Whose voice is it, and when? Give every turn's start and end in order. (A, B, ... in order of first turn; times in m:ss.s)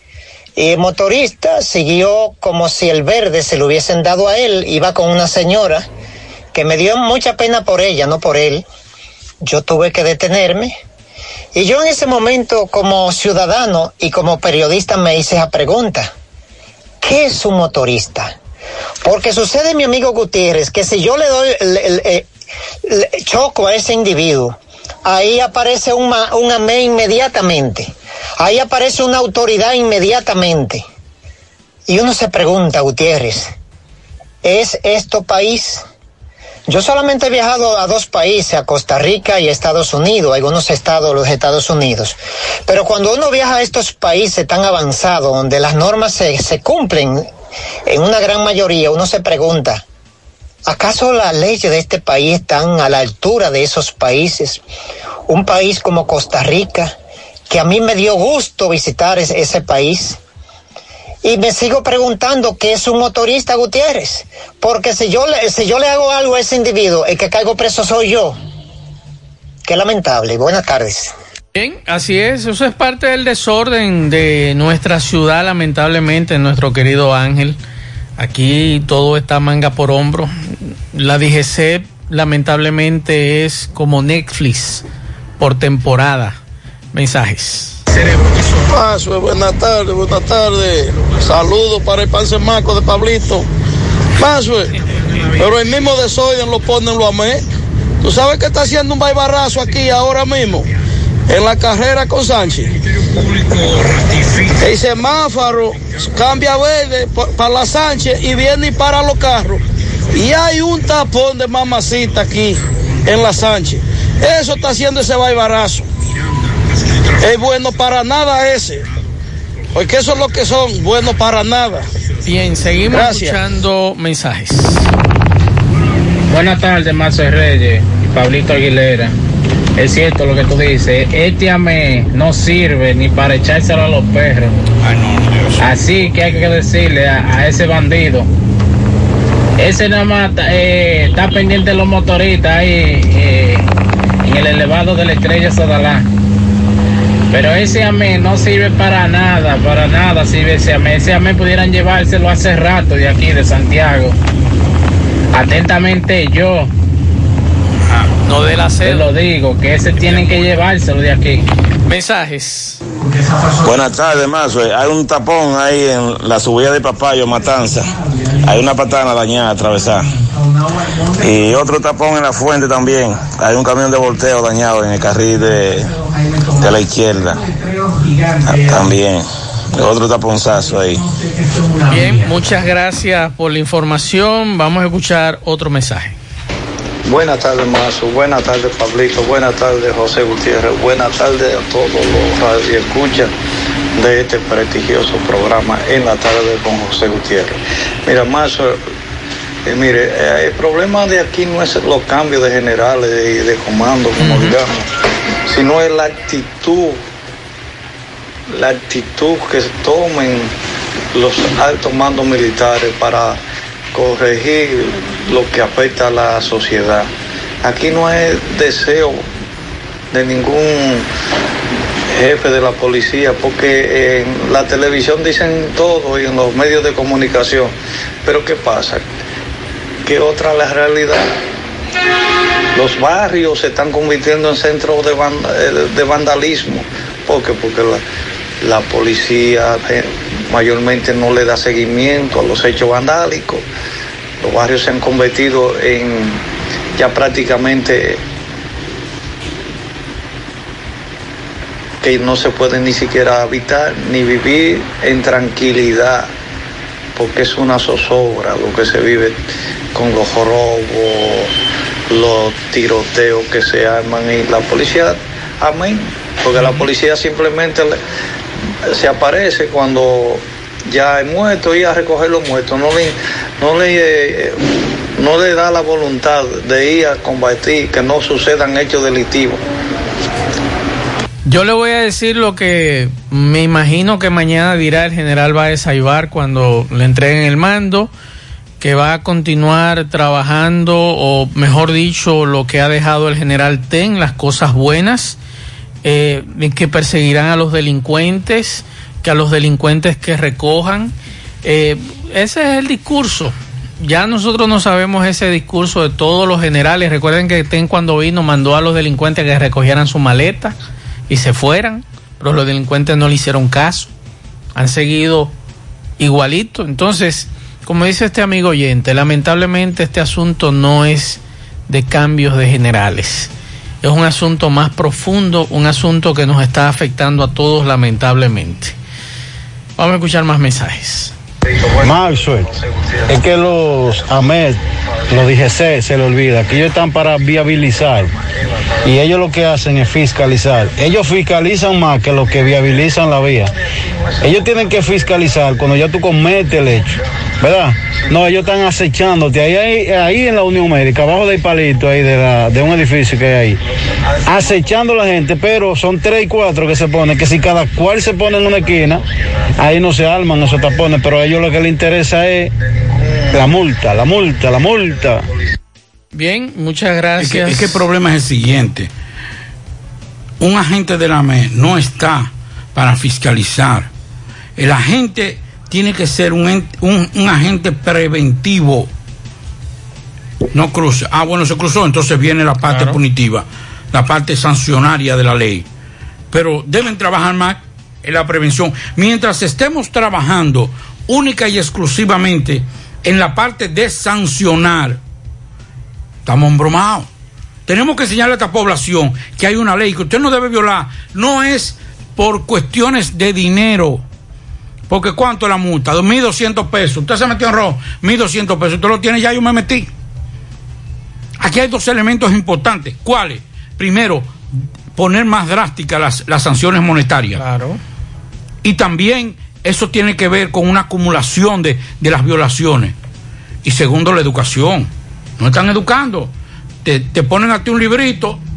0:00.6-0:05.8 A
0:06.5-0:08.6 A
0:09.4-0:10.7 A
0:11.5-0:16.1 A
0:17.0-0:18.4 A
0:19.0-0:22.3 A
0:22.8-0:30.8 A
0:31.9-0:33.5 A
0:34.4-0:35.8 A
0:36.7-0:47.3 A
0:47.9-0:49.8 A
0:50.6-0:54.6 A
0:55.3-0:56.9 A
0:57.5-1:00.2 A
1:01.2-1:08.4 A
1:09.6-1:11.1 A
1:11.5-1:17.6 B
1:18.2-1:20.3 B
1:20.9-1:24.8 B
1:25.4-1:26.4 B
1:26.9-1:27.8 B
1:28.6-1:33.5 C
1:34.2-1:34.7 C
1:35.3-1:37.4 C
1:38.0-1:40.7 C
1:41.3-1:42.7 C
1:44.6-1:49.6 C
1:50.1-1:55.9 C
1:57.2-1:58.8 C
1:59.7-2:01.8 C
2:02.2-2:04.9 B
2:02.9-2:03.4 C
2:06.3-2:09.1 D
2:09.8-2:14.6 D
2:14.8-2:15.6 E
2:15.6-2:18.3 D
2:19.6-2:23.6 D
2:24.2-2:26.1 D
2:27.3-2:34.2 D
2:35.3-2:36.7 D
2:38.2-2:39.1 B
2:38.8-2:41.4 D
2:41.9-2:42.8 B
2:43.6-2:50.2 F
2:51.2-2:56.0 F
2:56.5-2:57.5 F
2:58.4-3:01.0 F
3:01.9-3:06.1 B
3:07.0-3:13.3 G
3:14.0-3:18.8 G
3:19.6-3:24.8 G
3:24.2-3:24.5 B
3:25.5-3:27.0 G
3:28.5-3:30.5 G
3:31.1-3:33.4 G
3:33.9-3:37.1 G
3:37.6-3:39.3 G
3:40.1-3:41.1 G
3:42.1-3:47.7 G
3:48.2-3:49.1 G
3:50.0-3:51.4 G
3:52.7-3:58.0 G
3:58.6-4:03.6 G
4:04.4-4:06.4 G
4:07.0-4:08.2 G
4:12.0-4:16.3 G
4:17.2-4:19.4 G
4:19.9-4:21.5 G
4:22.1-4:28.0 G
4:28.9-4:39.6 G
4:41.4-4:48.1 B
4:48.8-4:55.4 B
4:56.0-5:01.1 B
5:01.6-5:10.7 B
5:11.3-5:14.1 B
5:14.7-5:15.5 B
5:16.2-5:23.5 B
5:24.0-5:28.9 B
5:30.0-5:31.3 B
5:32.0-5:32.7 H
5:33.3-5:38.3 H
5:39.0-5:43.7 H
5:44.4-5:53.8 H
5:54.4-5:59.2 H
5:59.8-6:02.7 H
6:03.5-6:05.5 H
6:06.3-6:08.0 B
6:07.4-6:09.1 E
6:10.6-6:14.1 E
6:14.8-6:19.1 E
6:20.7-6:25.9 E
6:26.5-6:35.2 E
6:36.4-6:37.3 E
6:37.9-6:44.2 E
6:45.1-6:50.1 E
6:51.6-6:54.5 E
6:55.1-6:57.6 E
6:57.6-6:58.0 B
6:58.8-7:03.1 E
7:03.8-7:06.5 E
7:07.0-7:08.6 E